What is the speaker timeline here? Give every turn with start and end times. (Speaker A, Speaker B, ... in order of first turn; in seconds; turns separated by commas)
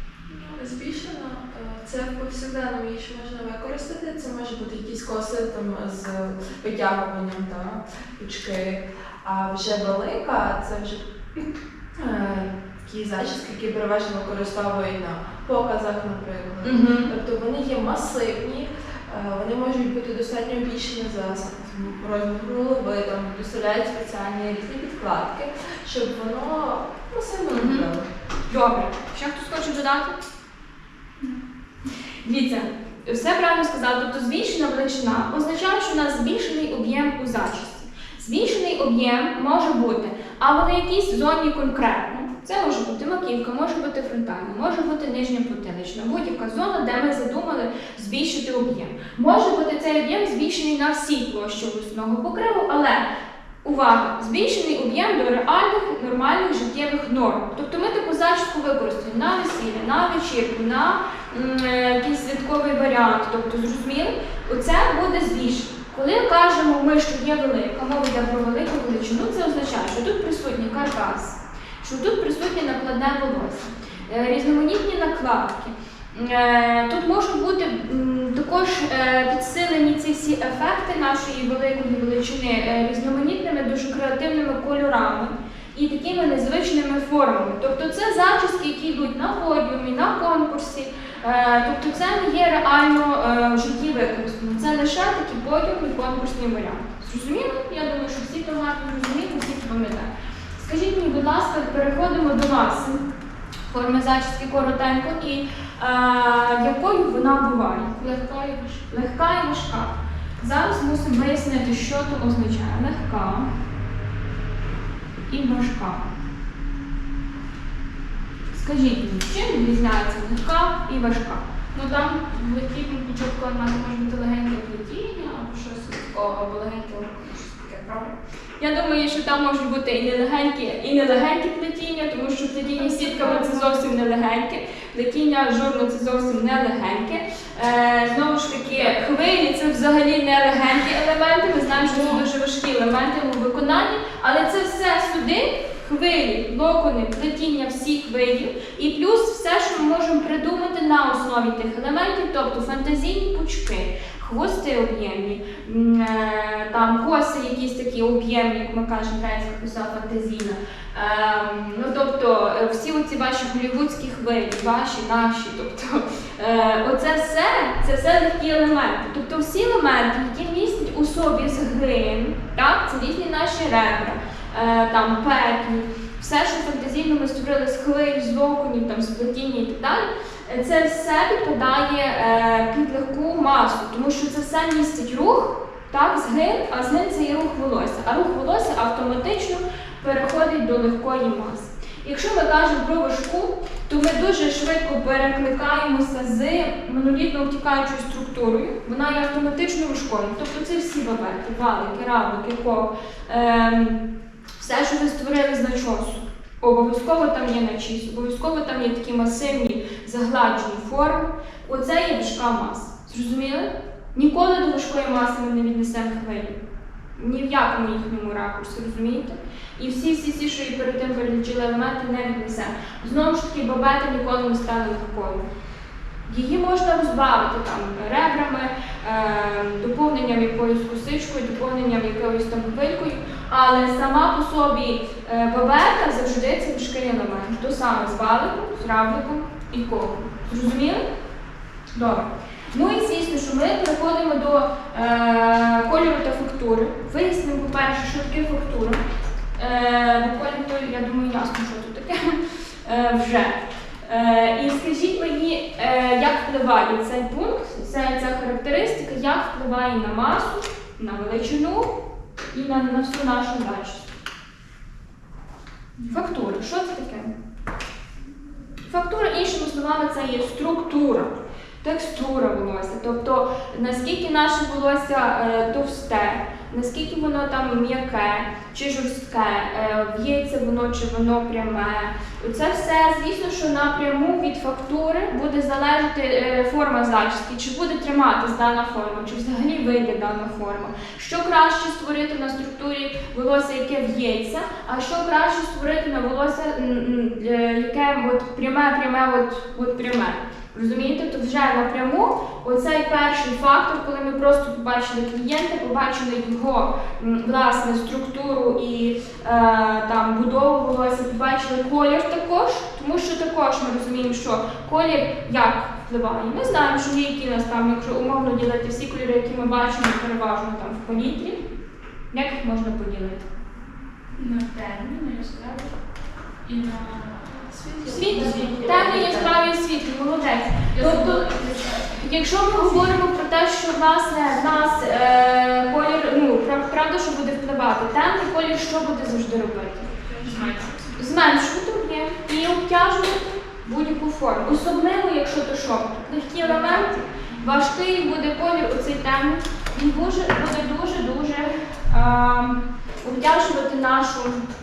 Speaker A: 0.3-28.1, Speaker B: 16.6-17.1, Speaker B: 27.5-27.9, Speaker B: 28.5-30.2, Speaker B: 32.2-53.1, Speaker B: 53.6-103.0, Speaker B: 103.7-108.0, Speaker C: 107.9-108.9, Speaker B: 108.9-113.5, Speaker B: 115.3-116.0, Speaker B: 118.5-121.4, Speaker C: 121.7-128.1, Speaker B: 128.6-204.0, Speaker C: 132.7-133.9, Speaker C: 141.8-142.2, Speaker B: 204.6-216.6, Speaker B: 217.2-225.5, Speaker B: 226.3-241.1, Speaker B: 241.9-249.0, Speaker B: 249.6-261.9, Speaker B: 262.5-264.1, Speaker C: 266.0-266.2, Speaker B: 266.1-267.3, Speaker B: 268.9-321.6, Speaker B: 322.3-323.5, Speaker C: 324.4-325.9, Speaker C: 326.6-329.4, Speaker A: 327.6-329.6, Speaker B: 328.0-340.1, Speaker C: 330.9-332.2, Speaker C: 340.2-341.2, Speaker B: 341.2-354.6, Speaker C: 346.6-347.6